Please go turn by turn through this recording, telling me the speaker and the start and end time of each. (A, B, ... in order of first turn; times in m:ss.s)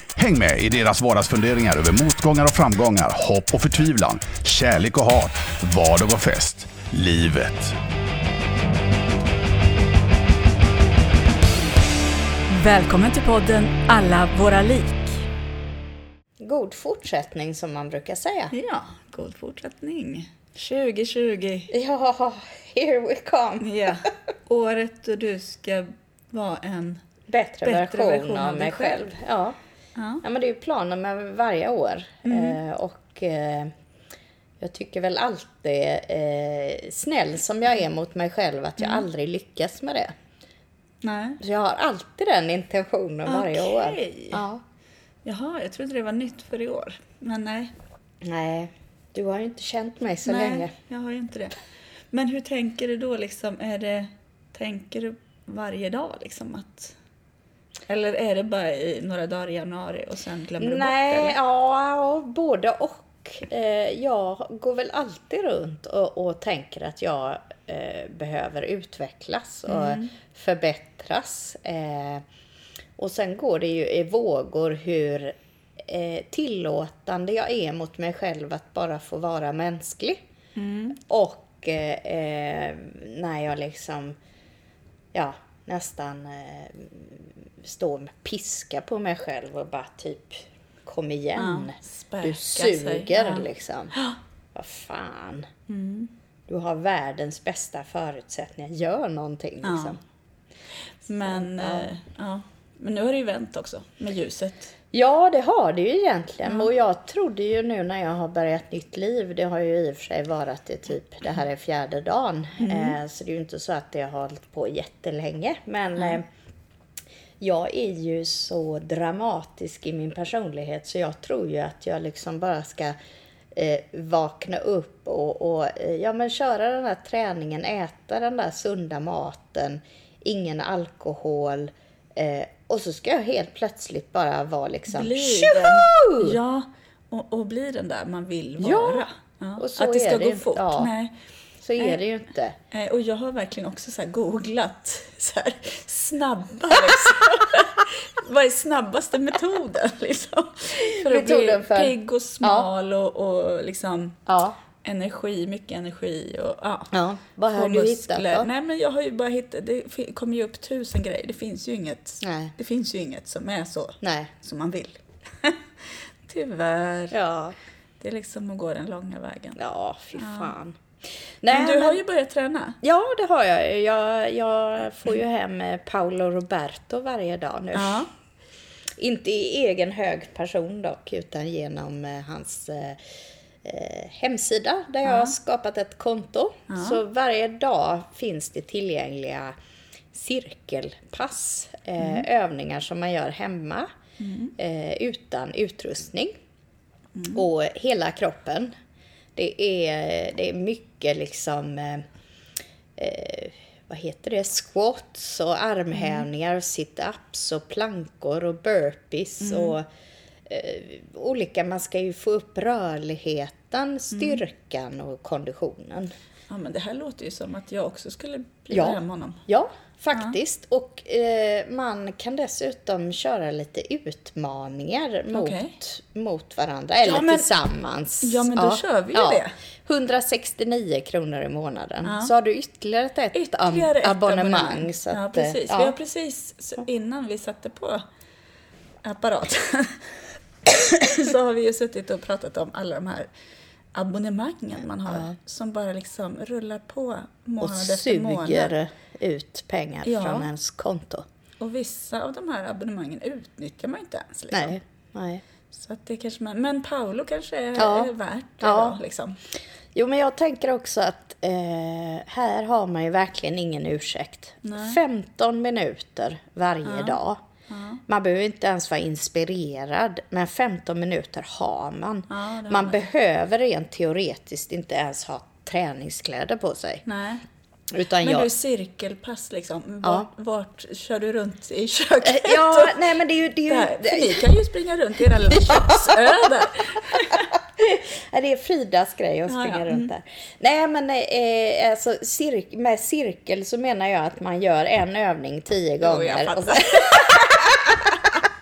0:00.2-0:07.8 A
0:12.5-0:15.2 B
0:16.4-0:18.5 C
0:18.5-0:21.7 B
0:21.7-0:24.1 C
0:23.6-0:27.0 B
0:27.3-0:29.6 C
0:27.6-0:29.1 B
0:30.0-0:30.2 B
0:30.2-0:33.7 C
0:32.2-0:32.6 B
0:34.6-0:40.1 C
0:38.8-0:39.0 B
0:41.0-0:41.4 B
0:41.4-0:44.6 C
0:43.2-0:44.4 B
0:45.2-0:47.7 B
0:48.2-0:50.7 C
0:50.2-0:51.6 B
0:52.1-0:56.9 B
0:57.9-1:01.4 B
1:00.6-1:12.2 C
1:09.7-1:10.1 B
1:13.0-1:20.2 C
1:20.6-1:21.0 B
1:21.0-1:24.2 C
1:25.1-1:33.9 C
1:31.4-1:34.2 B
1:34.5-1:35.5 C
1:35.7-1:36.1 B
1:36.5-1:40.0 C
1:39.6-1:40.0 B
1:41.0-1:44.7 B
1:41.2-1:41.9 C
1:44.9-1:56.2 C
1:52.6-1:53.0 B
1:57.4-2:03.0 C
2:03.5-2:16.4 C
2:14.9-2:21.1 B
2:18.6-2:19.1 C
2:19.6-2:20.9 C
2:21.6-2:22.6 C
2:22.7-2:34.2 B
2:31.0-2:32.7 C
2:34.3-2:34.6 C
2:34.8-2:36.9 B
2:36.9-2:38.5 C
2:37.5-2:47.2 B
2:42.2-2:42.5 C
2:44.0-2:44.3 C
2:47.1-2:47.5 C
2:48.0-2:49.6 B
2:49.6-2:50.8 C
2:50.1-2:50.5 B
2:51.4-2:52.0 C
2:51.5-2:52.8 B
2:52.8-2:58.0 C
2:57.7-2:58.1 B
2:59.0-3:03.0 C
3:03.6-3:09.5 C
3:05.0-3:05.3 B
3:06.7-3:07.0 B
3:10.1-3:13.9 C
3:12.0-3:12.2 B
3:14.2-3:14.5 B
3:14.6-3:16.3 C
3:17.2-3:17.4 B
3:17.3-3:18.7 C
3:19.3-3:22.0 C
3:23.0-3:29.9 C
3:26.0-3:26.2 B
3:29.4-3:29.8 B
3:30.4-3:36.1 C
3:34.1-3:34.4 B
3:36.5-3:39.4 B
3:38.7-3:55.9 C
3:45.3-3:45.8 B
3:47.0-3:47.5 B
3:48.2-3:49.5 B
3:52.0-3:52.3 B
3:53.3-3:58.0 B
3:59.0-4:00.0 B
4:00.6-4:03.3 B
4:03.9-4:08.7 B
4:05.1-4:05.3 C
4:07.6-4:11.3 C
4:10.0-4:10.5 B
4:11.6-4:14.8 B
4:14.5-4:15.4 C
4:15.7-4:19.4 B
4:17.8-4:19.0 C
4:19.9-4:27.4 C
4:24.6-4:25.0 B
4:26.8-4:28.0 B
4:28.1-4:37.0 C
4:32.3-4:33.0 B
4:37.0-4:37.4 B
4:37.9-4:38.5 C
4:38.2-4:43.0 B
4:40.0-4:40.3 C
4:42.2-4:44.4 C
4:43.6-4:47.5 B
4:45.5-4:46.3 C
4:47.5-4:58.0 C
4:49.5-4:50.1 B
4:56.0-4:58.4 B